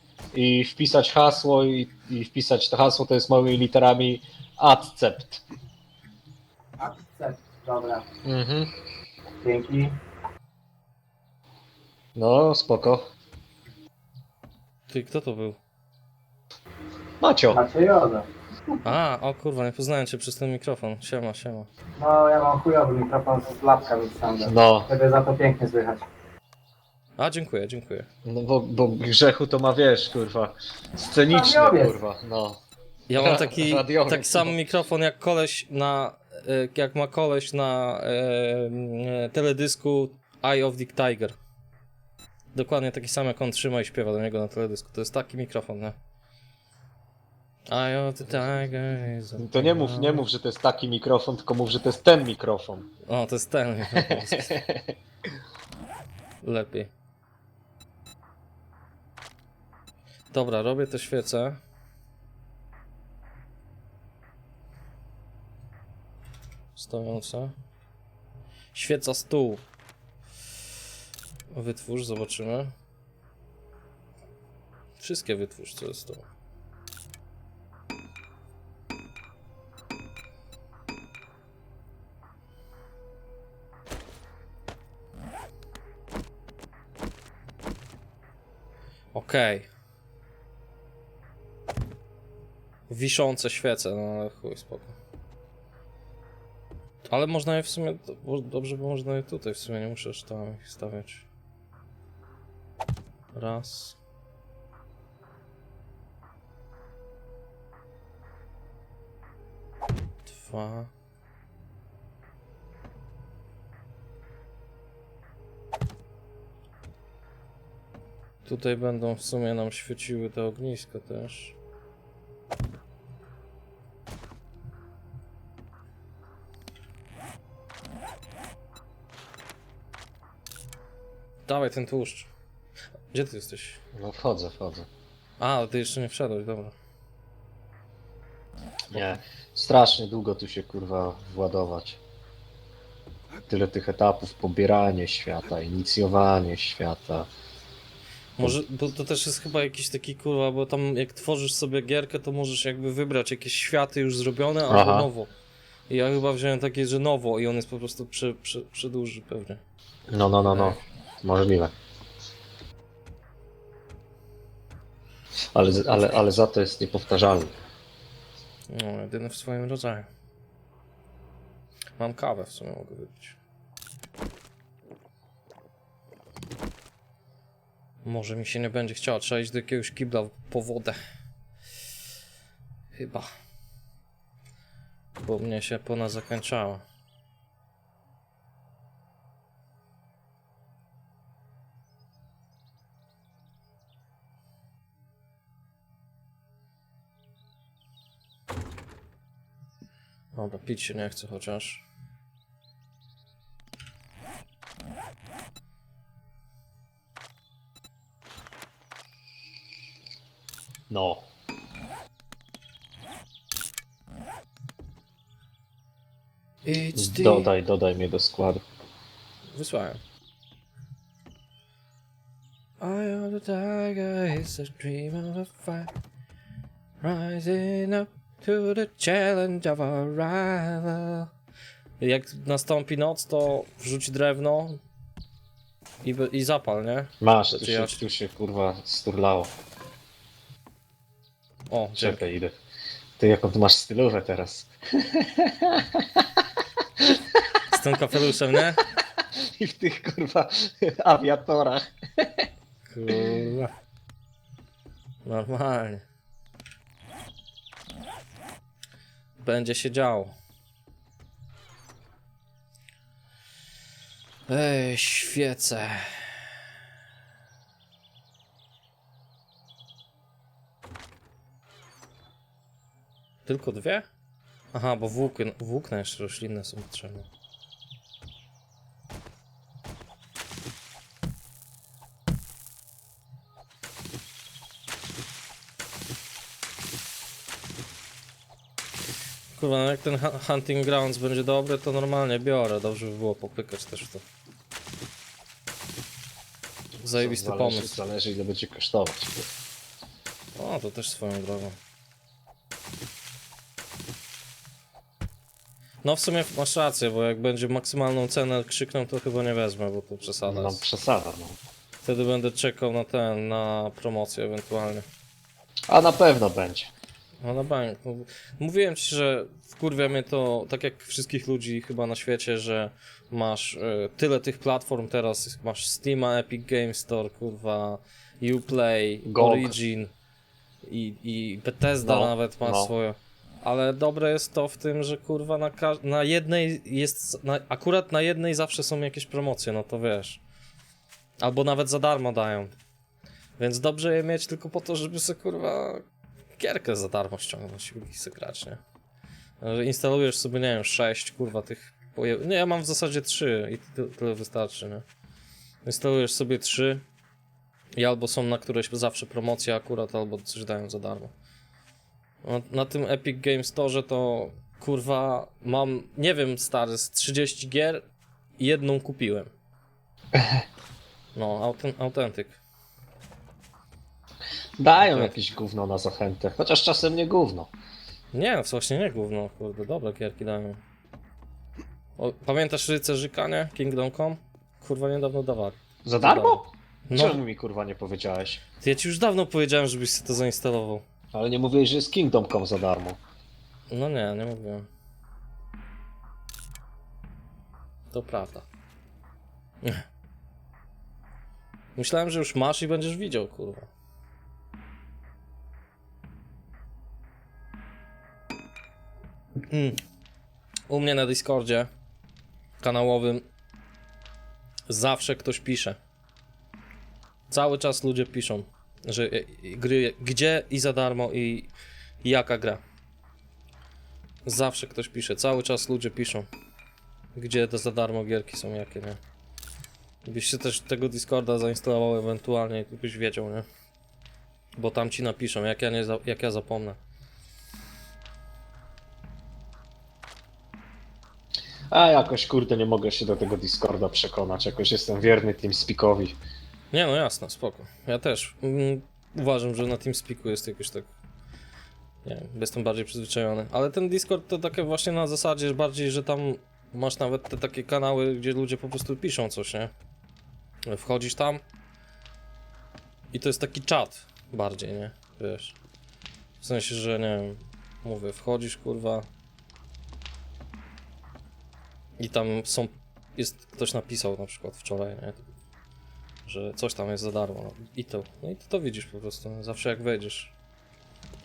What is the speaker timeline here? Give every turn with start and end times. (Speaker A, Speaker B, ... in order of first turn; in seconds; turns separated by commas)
Speaker A: 0.3-5.4, Speaker B: 6.8-8.1, Speaker A: 8.2-8.7, Speaker B: 9.4-10.0, Speaker A: 12.2-13.0, Speaker C: 14.9-15.6, Speaker A: 17.2-17.6, Speaker B: 17.5-18.3, Speaker C: 18.8-21.7, Speaker B: 22.0-26.0, Speaker A: 24.4-24.9, Speaker C: 27.2-28.1, Speaker A: 28.2-32.6, Speaker B: 31.3-31.9, Speaker C: 33.1-41.4, Speaker A: 33.2-34.5, Speaker C: 42.5-46.0, Speaker C: 47.7-50.2, Speaker A: 49.4-52.9, Speaker C: 53.1-54.6, Speaker A: 54.0-54.9, Speaker C: 56.4-56.9, Speaker C: 60.3-61.6, Speaker C: 66.8-67.5, Speaker C: 68.7-69.6, Speaker C: 71.5-72.7, Speaker C: 75.0-76.3, Speaker C: 89.1-89.7, Speaker C: 92.9-95.0, Speaker C: 97.1-101.3, Speaker C: 103.3-104.0, Speaker C: 110.2-110.9, Speaker C: 118.5-121.6, Speaker C: 131.5-132.3, Speaker C: 133.1-133.8, Speaker A: 133.9-134.9, Speaker C: 135.4-136.8, Speaker A: 138.9-142.0, Speaker C: 138.9-139.2, Speaker A: 143.5-147.3, Speaker C: 148.4-155.3, Speaker A: 154.7-155.1, Speaker C: 155.9-159.6, Speaker A: 160.1-161.7, Speaker C: 160.5-160.8, Speaker A: 165.6-167.5, Speaker C: 168.7-170.1, Speaker C: 172.0-173.4, Speaker C: 178.1-181.0, Speaker C: 182.9-183.3, Speaker C: 185.2-186.8, Speaker C: 200.3-201.8, Speaker A: 210.9-211.2, Speaker C: 216.7-217.5, Speaker A: 216.9-218.6, Speaker C: 219.5-220.0, Speaker C: 222.8-225.9, Speaker C: 227.0-231.3, Speaker C: 232.0-234.8, Speaker C: 236.0-238.0, Speaker A: 237.2-239.5, Speaker C: 241.7-242.2, Speaker A: 242.0-242.6, Speaker A: 243.2-246.2, Speaker C: 247.7-248.8, Speaker A: 249.2-252.5, Speaker C: 252.9-253.7, Speaker C: 255.2-256.0, Speaker C: 259.4-260.4, Speaker C: 264.5-266.5, Speaker C: 273.5-274.1, Speaker C: 274.7-277.3, Speaker C: 289.6-294.2, Speaker C: 297.0-298.0, Speaker A: 297.1-299.5, Speaker C: 300.6-301.8, Speaker C: 306.0-310.8, Speaker A: 310.5-311.6, Speaker C: 312.0-315.1, Speaker A: 315.9-316.9, Speaker C: 317.4-330.1, Speaker A: 329.2-329.8, Speaker C: 330.8-340.4, Speaker A: 332.0-332.9, Speaker C: 341.4-342.7, Speaker C: 343.6-346.1, Speaker C: 346.6-348.8, Speaker C: 349.6-355.1, Speaker C: 355.9-357.0, Speaker C: 358.0-361.3, Speaker C: 362.4-368.1, Speaker C: 368.6-369.5, Speaker A: 370.4-370.6, Speaker C: 371.4-372.6, Speaker A: 374.8-377.7, Speaker C: 375.0-375.4, Speaker C: 378.3-380.8, Speaker C: 382.2-387.4, Speaker A: 386.1-388.6, Speaker C: 388.8-391.1, Speaker A: 391.3-393.2, Speaker C: 393.9-394.9, Speaker C: 398.1-398.7, Speaker C: 402.0-403.9, Speaker C: 409.7-410.0, Speaker C: 410.9-411.9, Speaker C: 412.8-413.4, Speaker C: 414.9-416.0, Speaker C: 417.5-421.7, Speaker C: 422.2-422.8, Speaker C: 424.5-426.5, Speaker C: 427.4-429.2, Speaker C: 430.2-433.7, Speaker C: 434.8-437.0, Speaker A: 441.9-446.4, Speaker C: 446.9-451.1, Speaker C: 452.2-459.9, Speaker C: 460.9-461.6, Speaker C: 463.3-465.8, Speaker C: 466.6-469.3, Speaker C: 472.2-475.5, Speaker C: 476.5-480.5